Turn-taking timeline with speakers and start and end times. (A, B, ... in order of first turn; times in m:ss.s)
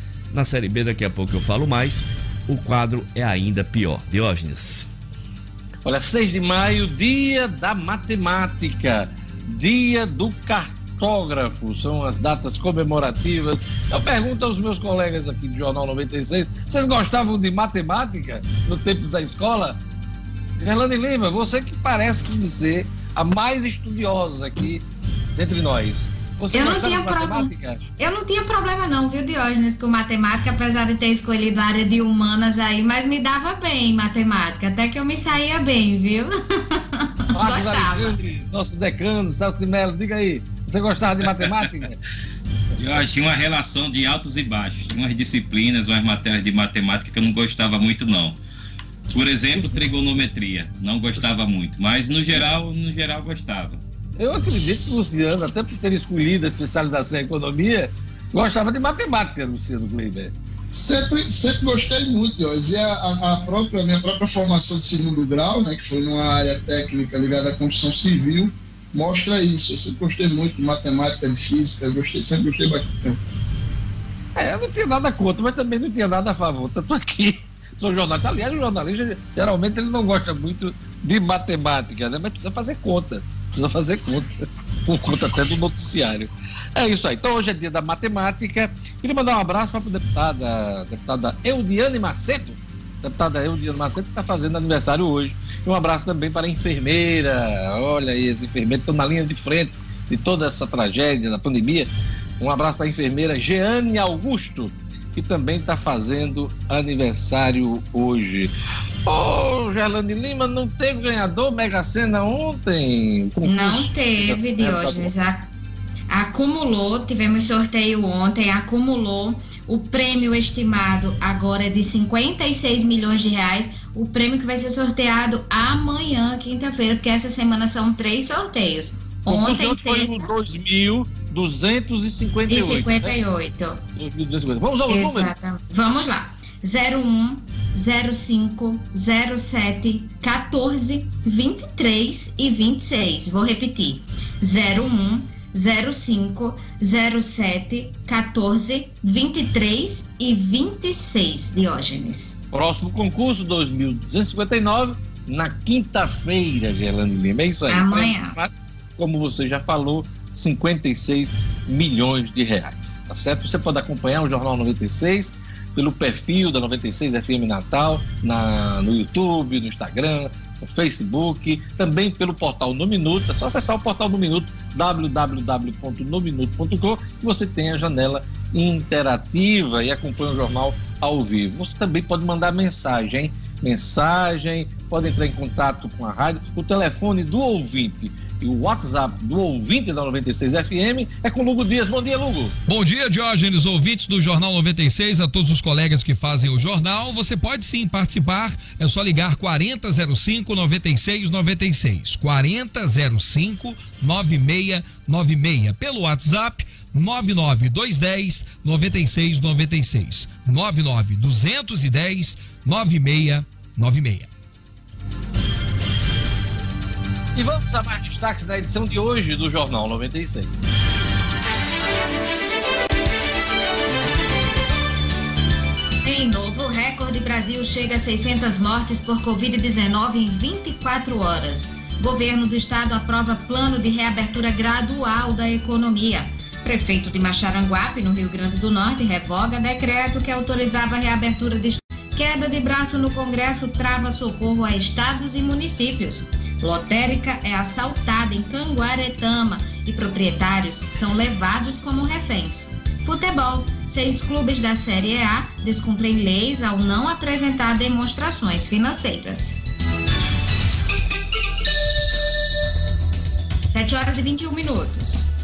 0:00.3-0:04.9 A
0:05.8-0:19.8 B
0:20.6-0:27.8 B
0:26.5-0:38.2 C
0:37.4-0:42.0 B
0:42.8-0:48.4 D
0:49.1-0:53.8 D
0:49.6-0:49.8 B
0:54.2-1:00.3 B
1:00.7-1:13.2 E
1:14.4-1:24.3 B
1:24.9-1:48.5 B
1:49.1-1:55.1 B
1:53.4-1:55.5 C
1:56.1-2:10.3 C
2:09.3-2:13.2 B
2:12.5-2:13.8 C
2:14.0-2:15.3 B
2:14.9-2:32.4 C
2:32.5-3:12.6 B
2:37.7-2:38.4 C
3:12.7-3:34.3 F
3:37.4-3:40.6 B
3:46.0-4:19.6 C
4:23.7-4:25.3 C